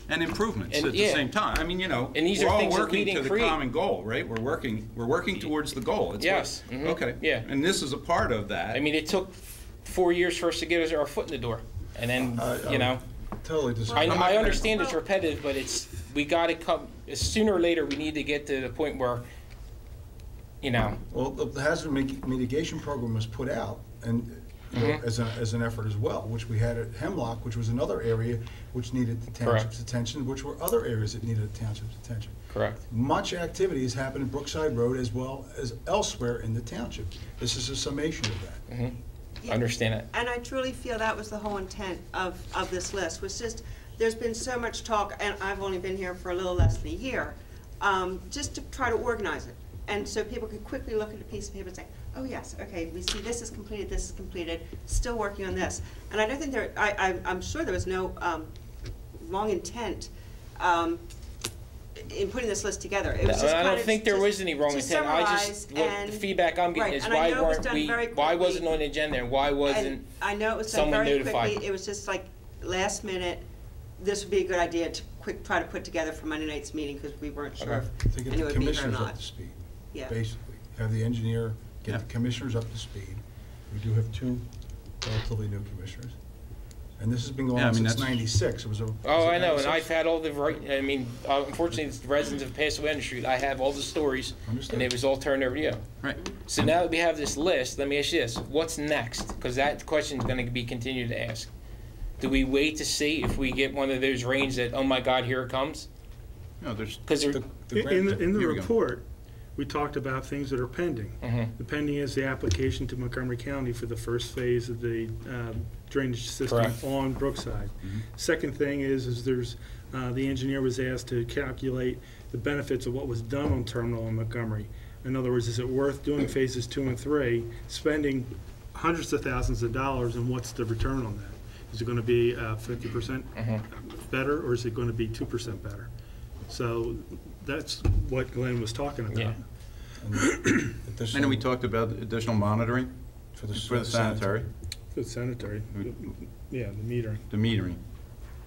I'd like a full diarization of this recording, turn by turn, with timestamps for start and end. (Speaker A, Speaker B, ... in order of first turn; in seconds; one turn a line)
Speaker A: 0.1-8.8
Speaker B: 0.7-1.2
Speaker B: 2.1-3.6
Speaker B: 6.2-7.5
Speaker B: 8.7-13.0
Speaker C: 12.4-14.4
Speaker D: 13.9-15.0
Speaker B: 13.9-19.3
Speaker A: 14.0-14.7
Speaker B: 20.6-21.0
Speaker C: 21.1-32.4
Speaker B: 24.8-25.0
Speaker B: 29.4-29.7
Speaker B: 32.5-32.8
Speaker C: 32.9-38.6
Speaker B: 38.7-39.0
Speaker D: 39.4-58.5
Speaker B: 39.5-40.1
Speaker D: 59.2-61.0
Speaker D: 62.0-68.8
Speaker B: 63.2-70.1
Speaker D: 69.6-73.5
Speaker B: 70.6-71.6
Speaker D: 74.0-79.2
Speaker B: 77.6-77.9
Speaker C: 78.1-84.5
Speaker D: 79.9-80.2
Speaker C: 85.0-86.2
Speaker C: 87.0-89.9
Speaker A: 87.5-88.2
Speaker B: 89.0-95.9
Speaker C: 94.5-94.9
Speaker B: 96.4-101.5
Speaker B: 102.2-105.9
Speaker A: 106.6-107.0
Speaker B: 107.1-107.4
Speaker C: 107.3-108.2
Speaker E: 107.7-109.0
Speaker A: 108.3-108.7
Speaker E: 109.6-135.9
Speaker B: 111.2-111.5
Speaker B: 116.5-116.8
Speaker B: 133.4-133.6
Speaker E: 136.5-139.4
Speaker B: 139.1-139.4
Speaker C: 140.0-141.5
Speaker E: 140.2-140.7
Speaker A: 141.1-142.9
Speaker C: 143.3-144.3
Speaker A: 143.5-144.5
Speaker E: 144.9-147.2
Speaker A: 147.3-147.8